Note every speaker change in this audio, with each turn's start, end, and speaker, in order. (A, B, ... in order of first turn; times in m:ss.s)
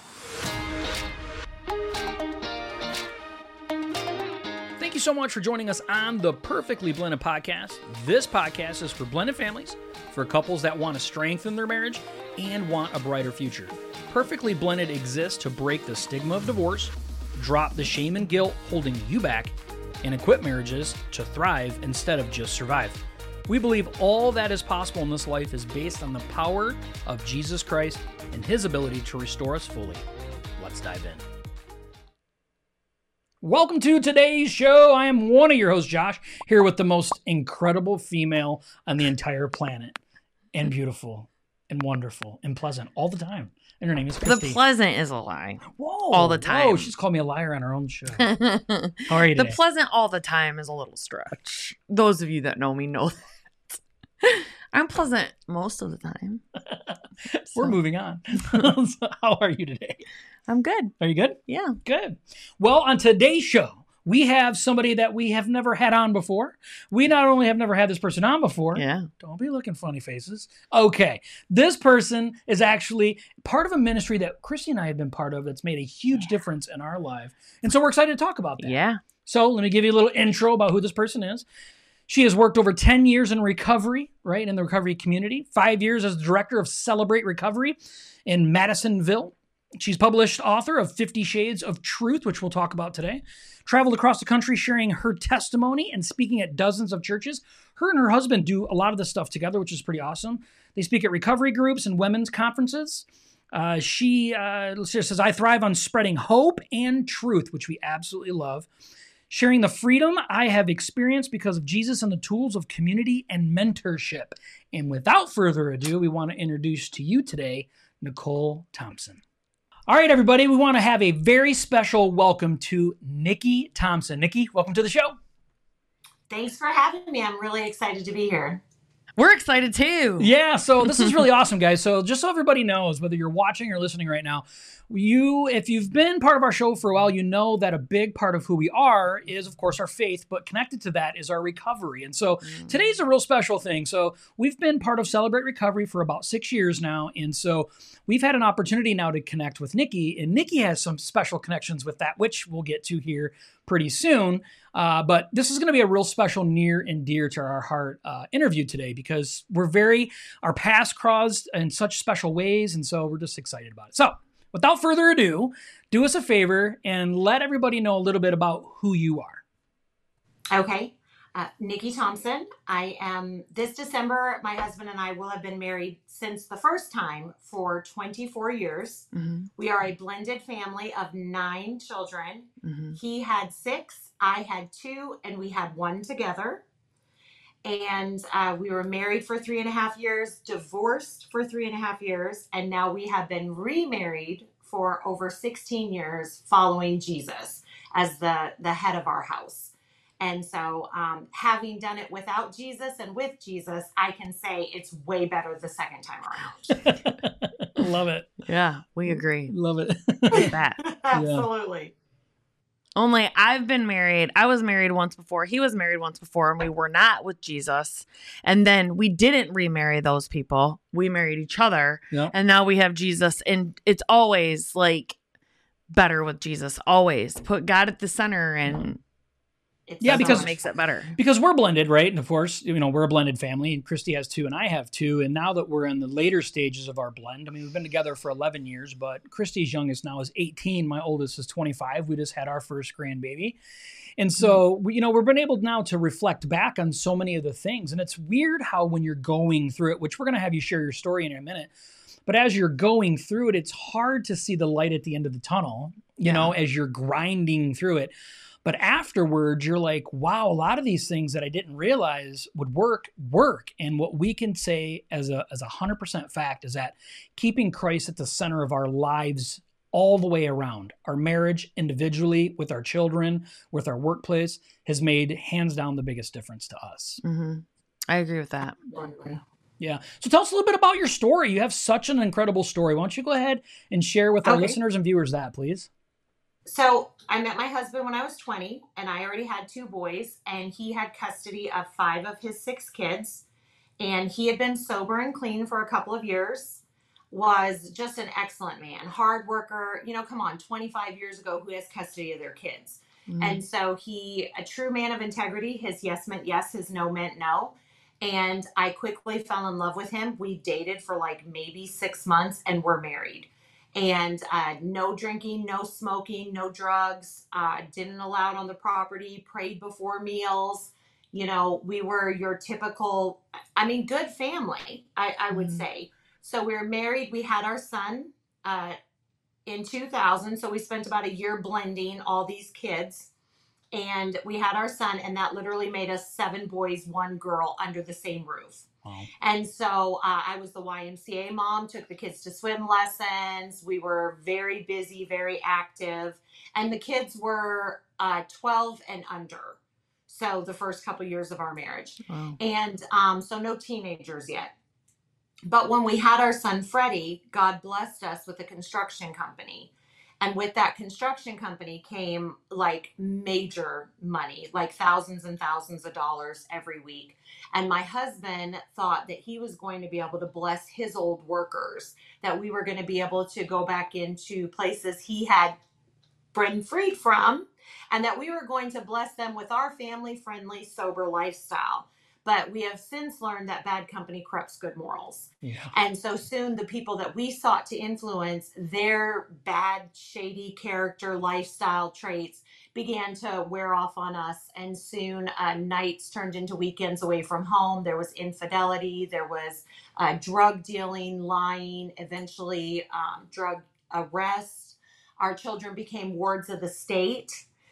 0:04.8-0:30.0 A
0:30.6-0:31.2 A
0:33.4-0:40.0 A
0:40.5-0:44.6 A
0:44.2-0:45.6 B
0:45.6-0:48.4 A
0:46.1-0:46.9 B
0:48.2-0:53.2 B
0:49.1-0:49.6 A
0:54.2-0:56.4 B
0:56.7-1:00.1 A
1:00.5-1:00.9 B
1:01.0-1:21.4 A
1:01.5-1:01.8 B
1:08.8-1:09.1 B
1:18.6-1:19.0 B
1:22.1-1:48.7 A
1:49.3-1:59.2 A
1:59.9-2:05.2 A
2:06.3-2:08.6 C
2:09.2-2:10.3 B
2:10.2-2:49.4 A
2:10.8-2:11.1 B
2:22.4-2:22.9 B
2:50.5-3:06.6 C
2:59.1-2:59.5 B
3:02.6-3:03.0 B
3:07.6-3:26.8 C
3:26.8-3:28.4 A
3:28.5-3:29.5 B
3:29.1-3:30.5 A
3:30.3-3:30.8 B
3:30.4-3:31.9 C
3:31.1-3:31.5 A
3:33.0-3:45.2 B
3:45.9-3:49.0 B
3:49.9-3:50.6 C
3:50.0-3:50.5 A
3:50.1-3:51.2 B
3:51.2-4:03.6 A
4:04.2-4:11.7 A
4:12.3-4:18.1 A
4:16.2-4:16.5 B
4:18.6-4:37.2 A
4:37.2-4:38.8 B
4:38.9-4:39.4 C
4:39.8-4:45.9 A
4:44.4-4:44.8 C
4:46.7-4:53.4 C
4:54.0-5:29.0 C
5:03.3-5:03.6 B
5:25.5-5:25.8 B
5:29.7-5:33.3 C
5:33.9-5:38.9 C
5:39.4-5:54.7 C
5:52.3-5:52.6 B
5:55.7-5:59.9 C
6:00.4-6:15.8 C
6:16.5-6:47.6 C
6:25.6-6:25.9 A